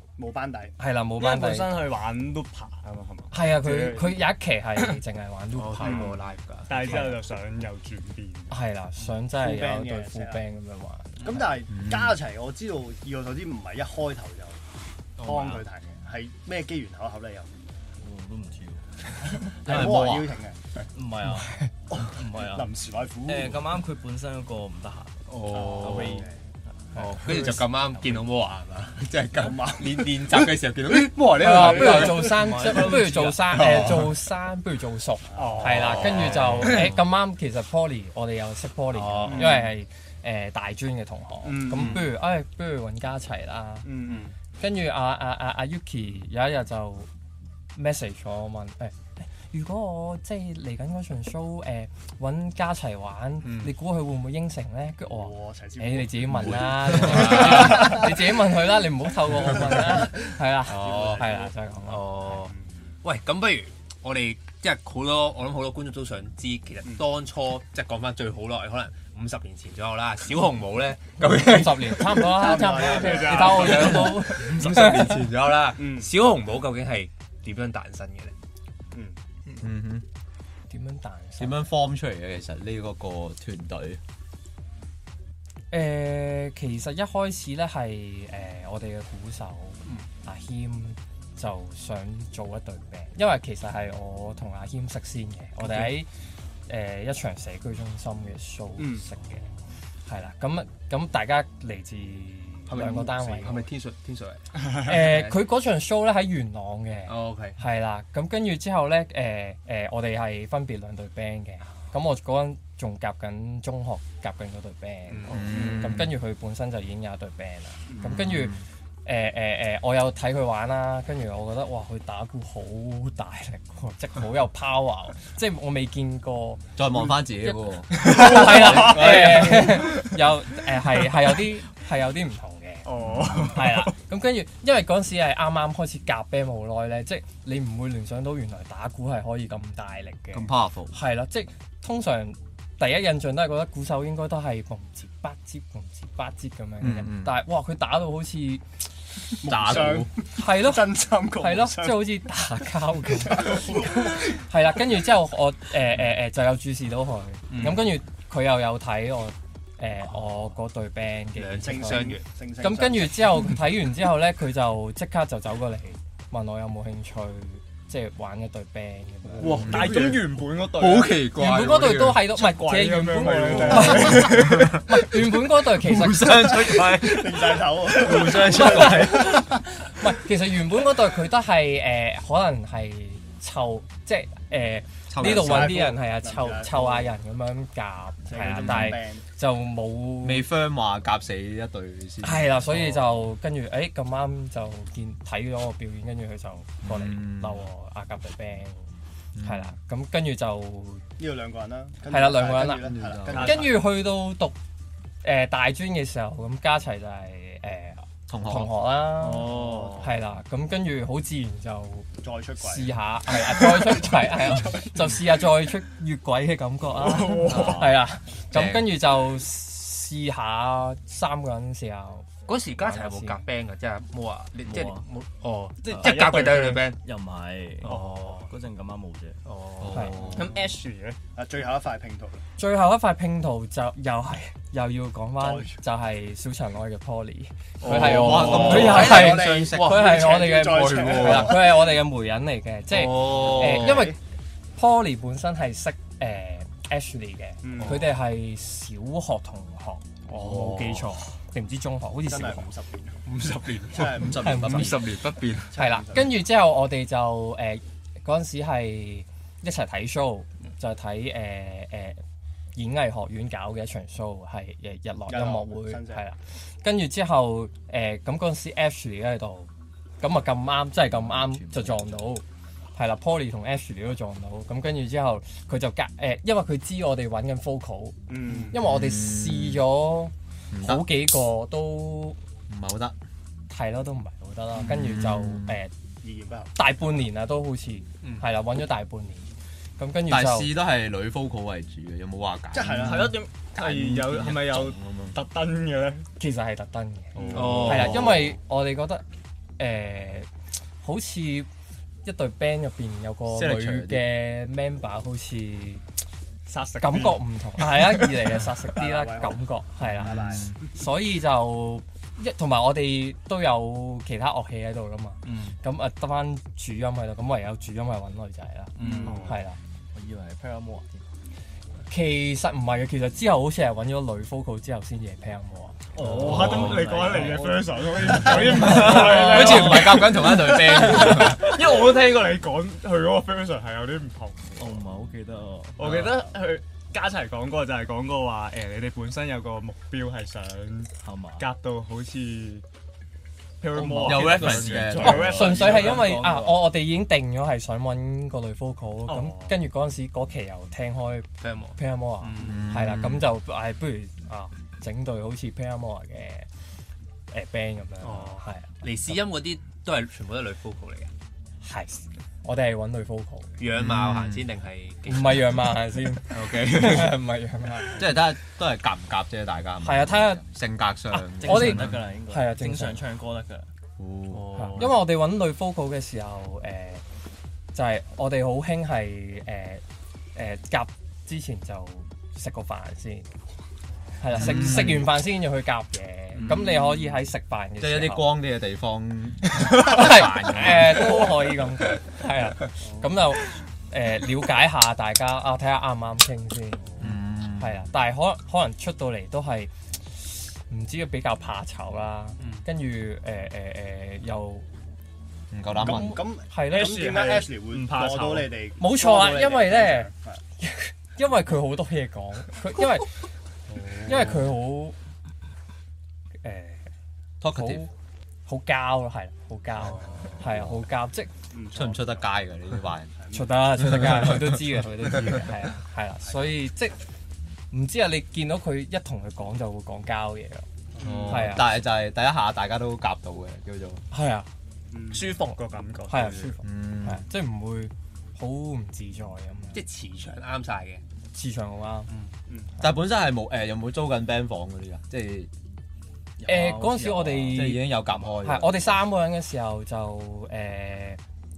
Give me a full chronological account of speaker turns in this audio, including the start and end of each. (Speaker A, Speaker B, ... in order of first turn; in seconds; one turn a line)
Speaker A: 0.2-0.7
Speaker B: 0.8-1.8
Speaker C: 1.1-4.2
Speaker B: 3.3-6.2
Speaker D: 5.5-7.0
Speaker A: 5.8-6.2
Speaker C: 6.7-8.6
Speaker B: 6.8-7.2
Speaker B: 8.5-11.4
Speaker A: 9.4-10.4
Speaker A: 11.2-14.6
Speaker E: 11.7-12.2
Speaker D: 15.2-15.7
Speaker A: 15.2-17.6
Speaker F: 18.0-18.9
Speaker A: 19.3-20.6
Speaker E: 19.6-20.4
Speaker F: 20.9-26.3
Speaker B: 21.2-21.7
Speaker A: 21.9-23.7
Speaker D: 25.3-26.3
Speaker A: 25.5-26.4
Speaker F: 26.9-28.3
Speaker D: 26.9-34.1
Speaker A: 29.4-30.5
Speaker B: 31.3-43.9
Speaker A: 31.4-32.1
Speaker F: 31.8-33.9
Speaker A: 35.3-36.2
Speaker C: 35.3-36.1
Speaker D: 35.6-37.0
Speaker D: 38.9-39.7
Speaker A: 39.2-39.7
Speaker A: 41.4-42.1
Speaker D: 41.7-42.0
Speaker A: 43.8-44.3
Speaker B: 44.6-47.1
Speaker B: 47.7-62.4
Speaker D: 53.4-53.7
Speaker A: 55.0-58.1
Speaker E: 56.3-57.9
Speaker D: 57.0-57.9
Speaker A: 59.5-60.1
Speaker A: 60.6-61.5
Speaker D: 60.7-61.3
Speaker D: 61.9-72.5
Speaker A: 62.5-62.8
Speaker B: 71.2-75.2
Speaker A: 72.2-74.1
Speaker C: 72.8-74.2
Speaker D: 73.1-78.3
Speaker E: 74.3-75.2
Speaker A: 75.8-76.1
Speaker A: 78.9-79.2
Speaker E: 79.6-80.0
Speaker B: 80.7-81.6
Speaker E: 81.4-84.0
Speaker B: 85.7-96.1
Speaker B: 96.7-99.5
Speaker A: 98.8-99.0
Speaker B: 100.0-103.6
Speaker D: 102.7-105.3
Speaker A: 102.7-103.6
Speaker B: 104.7-148.8
Speaker D: 107.1-107.6
Speaker D: 115.1-115.8
Speaker E: 115.3-116.1
Speaker E: 118.0-118.6
Speaker E: 126.8-129.9
Speaker C: 132.8-133.9
Speaker E: 133.0-133.5
Speaker E: 140.3-140.9
Speaker E: 146.8-147.4
Speaker A: 149.4-152.1
Speaker E: 149.4-150.1
Speaker B: 150.3-169.9
Speaker A: 153.4-153.9
Speaker D: 157.5-157.9
Speaker D: 161.4-162.2
Speaker A: 161.6-163.3
Speaker C: 169.3-171.3
Speaker E: 169.4-170.2
Speaker D: 169.7-170.1
Speaker E: 170.7-172.1
Speaker D: 170.9-172.2
Speaker B: 171.3-176.5
Speaker C: 172.3-174.7
Speaker E: 173.5-175.1
Speaker E: 175.7-179.6
Speaker A: 176.2-179.6
Speaker B: 178.5-190.5
Speaker E: 185.1-185.9
Speaker A: 185.2-187.2
Speaker A: 188.3-189.2
Speaker E: 188.6-189.0
Speaker E: 190.2-193.2
Speaker B: 192.2-198.9
Speaker E: 196.8-197.7
Speaker E: 199.3-199.7
Speaker B: 199.4-201.1
Speaker A: 201.2-203.8
Speaker B: 202.1-204.5
Speaker E: 202.6-203.7
Speaker C: 203.3-203.7
Speaker B: 205.2-223.4
Speaker E: 208.3-208.7
Speaker F: 209.2-210.1
Speaker C: 209.6-210.0
Speaker A: 209.7-209.9
Speaker A: 212.2-213.0
Speaker A: 213.6-214.9
Speaker C: 216.9-218.0
Speaker E: 218.5-218.9
Speaker D: 222.5-227.0
Speaker F: 224.7-225.0
Speaker C: 225.8-226.8
Speaker F: 225.8-229.4
Speaker D: 227.8-228.5
Speaker C: 227.8-228.4
Speaker D: 229.4-230.3
Speaker E: 229.8-230.5
Speaker F: 230.2-230.8
Speaker C: 230.3-231.2
Speaker A: 231.3-232.4
Speaker B: 232.6-244.2
Speaker A: 235.4-235.7
Speaker E: 237.8-240.0
Speaker D: 237.8-241.6
Speaker A: 238.2-241.9
Speaker E: 242.9-244.1
Speaker D: 243.3-243.6
Speaker A: 243.4-244.1
Speaker B: 244.7-252.7
Speaker A: 247.6-248.2
Speaker E: 250.3-251.2
Speaker A: 252.3-253.2
Speaker D: 253.2-255.7
Speaker A: 253.9-254.7
Speaker E: 254.0-255.2
Speaker B: 254.3-255.0
Speaker A: 255.7-256.3
Speaker B: 255.7-262.2
Speaker B: 262.8-269.7
Speaker A: 265.3-266.2
Speaker B: 270.2-272.4
Speaker F: 271.1-272.2
Speaker B: 272.9-282.4
Speaker A: 278.3-278.8
Speaker E: 278.7-279.8
Speaker E: 280.7-281.1
Speaker E: 282.7-283.1
Speaker B: 283.7-285.9
Speaker E: 284.8-285.8
Speaker A: 286.2-286.8
Speaker B: 286.7-290.7
Speaker E: 290.3-295.4
Speaker A: 292.7-293.4
Speaker C: 292.9-296.3
Speaker B: 296.4-299.2
Speaker A: 297.4-298.0
Speaker E: 297.4-298.5
Speaker D: 297.5-298.4
Speaker B: 299.8-300.5
Speaker B: 301.0-301.7
Speaker B: 302.2-306.0
Speaker E: 303.5-304.3
Speaker C: 306.6-307.4
Speaker B: 307.0-319.8
Speaker A: 308.9-309.6
Speaker E: 310.0-310.8
Speaker A: 310.2-310.8
Speaker D: 315.4-315.8
Speaker D: 318.9-319.5
Speaker A: 319.0-319.6
Speaker C: 319.2-319.6
Speaker F: 320.1-321.2
Speaker B: 322.1-326.0
Speaker C: 326.1-335.1
Speaker F: 326.1-330.2
Speaker E: 326.2-327.1
Speaker E: 328.4-331.8
Speaker D: 329.6-329.8
Speaker F: 331.1-331.7
Speaker F: 334.8-336.3
Speaker C: 335.9-342.8
Speaker F: 341.2-341.6
Speaker C: 343.8-346.4
Speaker B: 344.0-344.5
Speaker E: 344.2-346.0
Speaker F: 344.5-346.9
Speaker B: 345.2-356.7
Speaker C: 349.3-349.7
Speaker D: 351.6-352.9
Speaker E: 352.6-353.5
Speaker B: 357.5-359.4
Speaker D: 358.2-361.3
Speaker B: 361.8-363.8
Speaker D: 363.8-367.4
Speaker E: 363.9-364.6
Speaker B: 365.3-368.2
Speaker E: 368.1-372.2
Speaker B: 370.0-370.6
Speaker F: 371.4-373.9
Speaker B: 371.6-373.2
Speaker E: 374.2-375.2
Speaker B: 374.7-377.2
Speaker B: 377.9-380.0
Speaker B: 380.5-383.5
Speaker B: 384.4-388.6
Speaker E: 384.5-385.4
Speaker E: 388.0-391.5
Speaker B: 389.9-404.9
Speaker E: 397.2-398.0
Speaker D: 402.6-402.8
Speaker E: 405.7-406.4
Speaker B: 406.0-407.3
Speaker A: 406.0-410.6
Speaker C: 406.9-408.8
Speaker B: 409.0-413.4
Speaker B: 414.2-415.1
Speaker B: 416.6-417.1
Speaker E: 417.6-418.1
Speaker B: 417.7-418.1
Speaker B: 418.6-421.5
Speaker A: 420.1-420.4
Speaker E: 420.6-421.0
Speaker A: 421.7-422.6
Speaker E: 421.9-423.3
Speaker A: 423.4-423.7
Speaker B: 423.5-427.1
Speaker E: 424.0-424.8
Speaker B: 427.9-430.9
Speaker A: 431.2-431.7
Speaker E: 431.2-434.2
Speaker B: 431.4-431.9
Speaker B: 434.3-434.7
Speaker A: 435.1-435.5
Speaker C: 435.3-436.8
Speaker B: 435.3-440.0
Speaker E: 436.8-437.4
Speaker D: 439.9-441.2
Speaker B: 441.5-442.3
Speaker D: 442.3-442.5
Speaker A: 442.7-442.9
Speaker E: 443.0-445.7
Speaker F: 446.6-448.6
Speaker B: 446.6-451.4
Speaker E: 447.7-449.2